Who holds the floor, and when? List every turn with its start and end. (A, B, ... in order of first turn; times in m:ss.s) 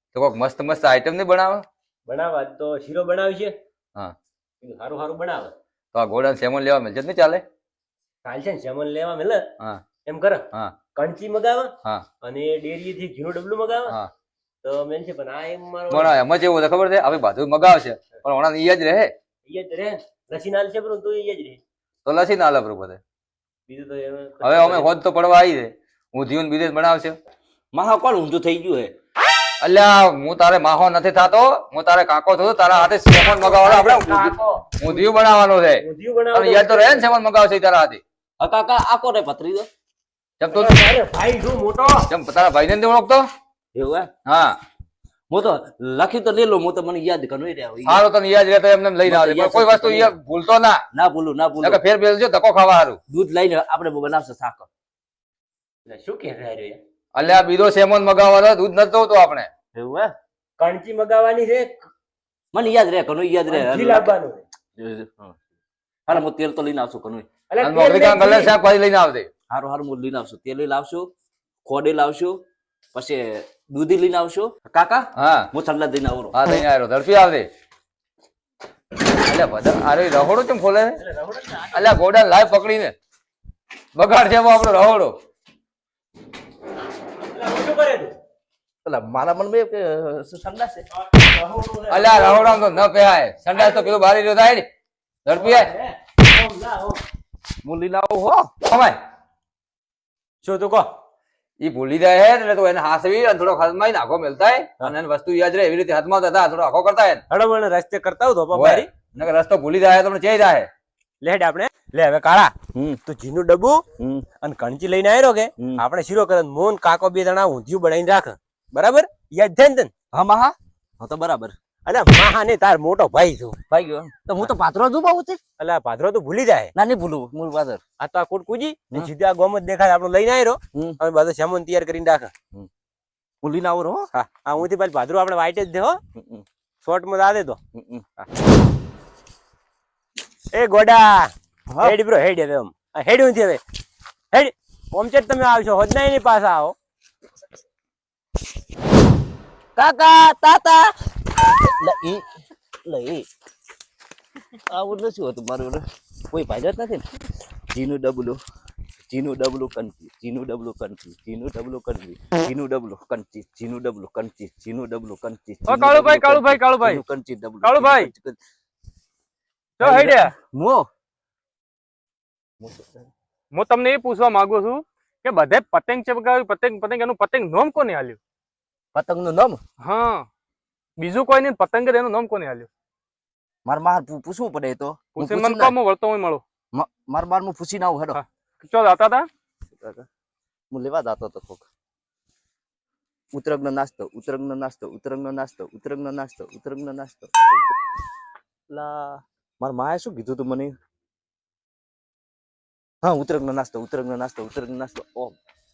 0:00.1-0:01.6 A
0:02.1-0:03.5 B
0:04.6-0:05.5 B
0:05.9-0:07.4 A
0:08.2-0:09.4 B
0:10.0-0:11.7 B
0:12.2-0:13.9 B
0:14.6-0:16.2 B
0:15.9-0:19.1 A
0:19.4-0:21.6 B
0:22.0-0:23.0 A
0:23.7-0:24.9 B
0:24.4-0:27.2 A
0:27.7-0:28.9 C
0:29.6-0:38.0 A
0:33.0-0:35.1 B
0:35.8-0:37.1 B
0:38.4-0:39.7 C
0:40.4-0:40.8 A
0:40.5-0:42.1 B
0:42.1-0:43.2 A
0:43.7-0:44.1 C
0:44.2-0:44.5 A
0:45.3-0:48.0 C
0:47.8-0:50.8 A
0:49.0-0:50.2 C
0:50.9-0:51.8 C
0:51.6-0:53.0 A
0:53.1-0:54.7 C
0:55.9-0:56.8 B
0:57.1-0:59.5 A
0:59.7-1:00.1 C
1:00.6-1:01.8 B
1:02.5-1:04.1 C
1:03.5-1:04.4 B
1:04.8-1:05.3 C
1:06.1-1:07.3 C
1:07.5-1:08.5 B
1:07.6-1:09.3 A
1:09.5-1:11.1 C
1:11.6-1:12.4 C
1:12.9-1:16.3 C
1:15.2-1:15.5 A
1:16.3-1:17.5 A
1:19.2-1:21.0 A
1:21.0-1:21.9 B
1:21.7-1:22.9 A
1:24.0-1:25.1 A
1:27.3-1:28.1 B
1:28.8-1:30.8 C
1:31.0-1:32.7 B
1:31.9-1:34.7 A
1:33.5-1:34.0 B
1:35.2-1:35.7 A
1:35.3-1:37.0 B
1:37.6-1:38.5 C
1:38.6-1:39.0 A
1:40.4-1:40.9 B
1:41.6-1:47.2 A
1:47.3-1:48.9 B
1:48.5-1:50.7 A
1:51.2-1:52.5 B
1:52.7-1:53.0 C
1:53.0-1:53.8 B
1:54.0-1:54.2 C
1:54.4-1:59.9 B
2:00.1-2:01.5 C
2:01.8-2:03.6 B
2:03.7-2:05.4 C
2:05.6-2:06.7 B
2:06.7-2:07.8 C
2:08.0-2:12.3 B
2:13.4-2:14.1 C
2:14.1-2:16.0 B
2:16.1-2:16.4 C
2:16.8-2:17.6 B
2:17.7-2:18.0 C
2:20.5-2:23.6 B
2:21.7-2:22.0 C
2:24.3-2:26.8 B
2:29.8-2:32.2 C
2:32.8-2:33.2 C
2:34.7-2:37.0 C
2:37.7-2:38.4 C
2:39.1-2:48.4 C
2:45.7-2:47.0 D
2:47.6-2:48.1 D
2:49.8-2:50.3 D
2:49.8-2:50.9 C
2:52.6-2:53.1 C
2:53.6-2:58.2 D
2:58.9-2:59.6 C
2:59.8-3:00.3 D
3:01.0-3:02.7 D
3:03.6-3:05.7 C
3:05.1-3:06.4 D
3:06.7-3:08.2 C
3:08.1-3:09.3 D
3:09.8-3:10.1 C
3:10.7-3:11.6 C
3:13.3-3:17.8 C
3:18.7-3:20.7 C
3:23.0-3:25.3 C